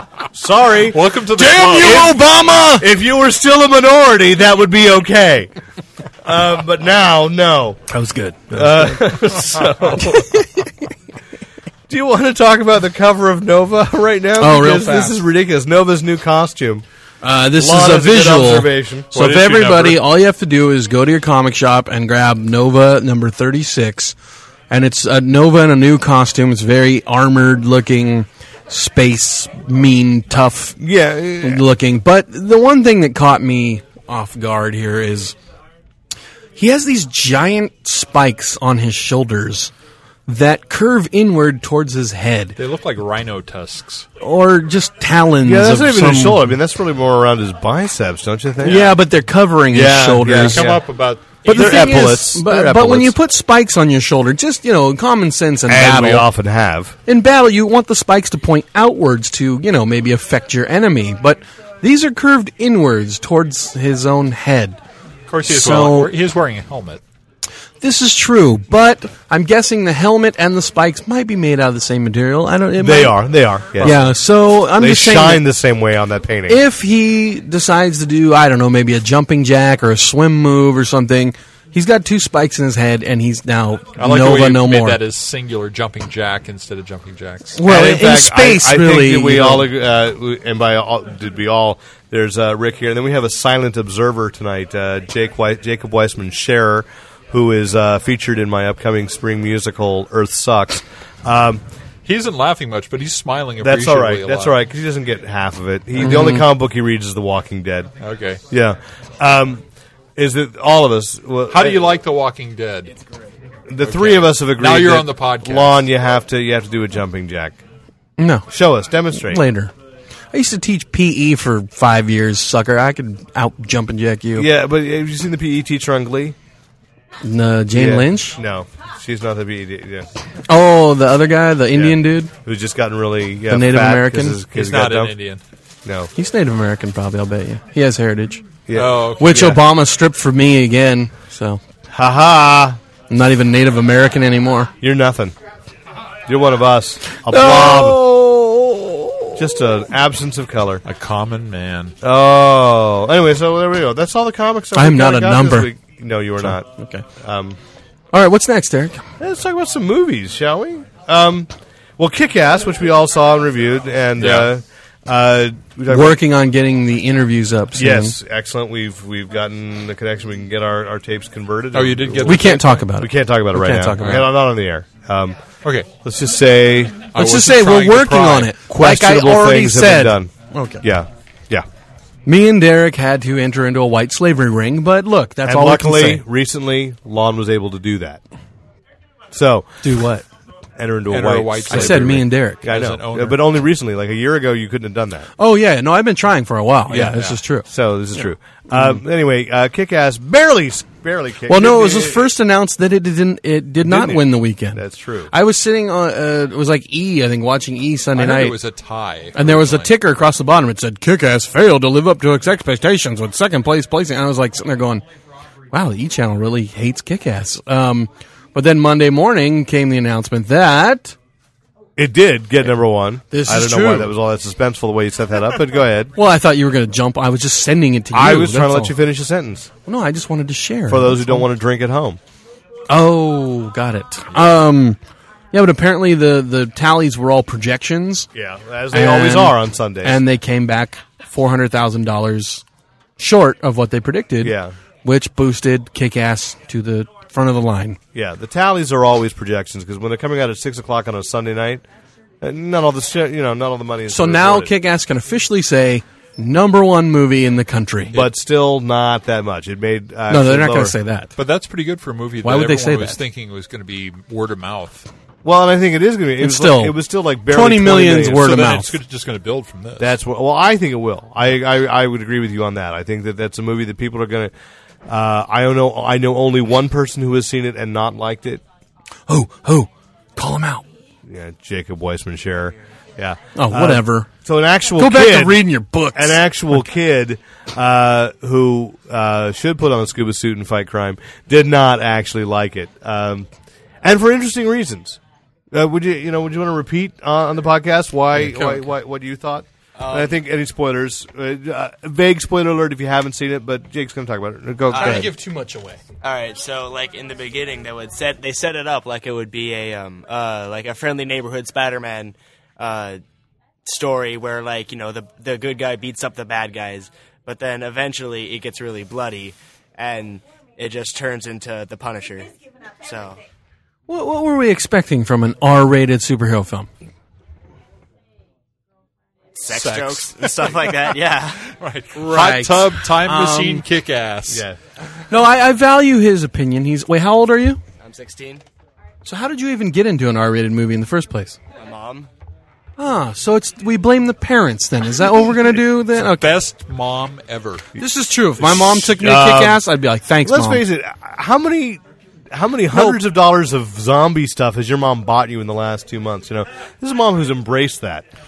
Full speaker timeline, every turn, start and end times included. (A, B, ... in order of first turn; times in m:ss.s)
0:00.3-0:02.2 A
0:00.9-0:02.2 B
0:01.3-0:02.9 C
0:02.7-0:05.5 A
0:06.2-0:07.8 A
0:07.9-0:09.0 C
0:08.5-0:10.4 A
0:10.1-0:10.6 C
0:11.9-0:16.8 A
0:14.4-0:15.2 C
0:17.2-0:24.2 C
0:17.5-0:19.1 A
0:19.1-0:20.0 B
0:24.7-0:30.8 C
0:30.8-0:31.6 A
0:31.4-0:35.4 C
0:36.6-0:39.7 C
0:40.3-0:42.6 C
0:42.6-0:44.1 B
0:44.2-0:46.5 C
0:45.4-0:48.9 A
0:48.6-0:50.7 C
0:48.6-0:49.0 B
0:49.7-0:50.8 A
0:50.4-0:52.1 B
0:51.4-0:53.2 A
0:51.4-0:56.3 C
0:55.7-0:57.0 A
0:57.1-1:04.8 C
1:05.3-1:07.0 B
1:05.5-1:06.1 C
1:07.8-1:13.2 C
1:12.8-1:14.0 A
1:13.7-1:15.4 C
1:14.7-1:16.6 A
1:16.5-1:25.0 C
1:24.0-1:27.6 B
1:27.6-1:29.7 C
1:27.6-1:41.6 A
1:42.0-1:44.6 B
1:43.6-1:47.9 A
1:46.0-1:46.4 C
1:48.0-1:48.4 B
1:48.5-1:49.6 A
1:50.2-1:51.9 A
1:51.5-1:52.9 B
1:53.7-1:57.6 A
1:53.8-1:55.8 B
1:58.2-1:58.5 C
1:58.5-1:59.5 A
1:59.1-1:59.7 C
2:00.3-2:04.5 C
2:04.4-2:06.4 A
2:07.2-2:08.4 C
2:07.7-2:10.1 A
2:10.5-2:12.3 C
2:11.7-2:15.2 A
2:13.5-2:14.4 C
2:14.5-2:15.4 B
2:15.8-2:16.1 A
2:16.2-2:18.4 C
2:18.7-2:19.6 A
2:18.7-2:19.6 B
2:19.2-2:21.6 C
2:21.9-2:22.8 A
2:23.1-2:24.7 C
2:24.8-2:25.4 A
2:26.3-2:28.1 A
2:27.2-2:29.4 C
2:29.4-2:30.8 A
2:30.8-2:32.0 B
2:32.0-2:37.6 A
2:34.8-2:35.7 C
2:36.4-2:37.0 C
2:38.1-2:39.0 C
2:39.2-2:46.2 A
2:44.2-2:44.5 B
2:45.9-2:48.2 C
2:47.8-2:55.4 A
2:51.7-2:52.8 B
2:52.2-2:54.3 C
2:54.0-2:54.3 B
2:55.6-2:55.9 B
2:56.0-2:57.1 A
2:57.1-2:58.6 B
2:57.1-3:00.8 C
2:58.7-3:01.7 A
3:02.3-3:06.2 C
3:05.4-3:08.2 A
3:09.3-3:09.8 A
3:09.8-3:10.2 C
3:10.8-3:15.3 A
3:11.1-3:13.4 B
3:11.7-3:12.7 C
3:15.4-3:17.7 C
3:16.9-3:22.3 A
3:17.0-3:17.4 B
3:18.7-3:19.0 C
3:21.5-3:28.6 C
3:23.8-3:25.3 A
3:28.2-3:29.9 B
3:29.4-3:35.0 C
3:35.7-3:41.2 C
3:42.0-3:46.1 A
3:43.3-3:44.1 C
3:46.2-3:49.0 C
3:48.1-3:49.7 A
3:49.8-3:51.4 C
3:50.9-3:52.2 A
3:52.9-3:55.0 C
3:55.5-3:58.3 C
3:58.3-4:00.2 A
3:58.9-4:02.6 C
4:03.2-4:08.0 C
4:04.4-4:04.8 A
4:08.1-4:11.8 A
4:12.4-4:14.7 A
4:14.1-4:18.2 C
4:18.1-4:21.0 A
4:20.3-4:21.3 C
4:21.4-4:25.1 B
4:22.4-4:23.2 C
4:25.4-4:28.7 A
4:26.4-4:27.0 C
4:27.5-4:28.9 C
4:28.4-4:30.2 B
4:30.0-4:34.5 A
4:35.1-4:38.6 A
4:39.3-4:40.8 C
4:41.3-4:53.5 A
4:43.6-4:44.3 C
4:45.0-4:46.4 C
4:54.0-4:55.2 A
4:55.7-5:05.3 A
4:58.4-4:58.8 C
5:00.0-5:00.4 D
5:04.9-5:05.3 D
5:04.9-5:06.0 C
5:06.2-5:13.2 D
5:13.8-5:23.4 D
5:24.1-5:26.9 C
5:29.6-5:31.7 D
5:29.7-5:31.1 B
5:31.7-5:34.7 B
5:32.1-5:33.8 C
5:34.5-5:34.8 A
5:35.3-5:37.8 C
5:38.0-5:38.6 D
5:39.2-5:41.6 C
5:41.8-5:42.3 D
5:43.0-5:46.6 C
5:46.1-5:47.9 B
5:48.0-5:50.8 C
5:48.6-5:49.8 A
5:50.4-5:58.2 A
5:52.9-5:53.2 C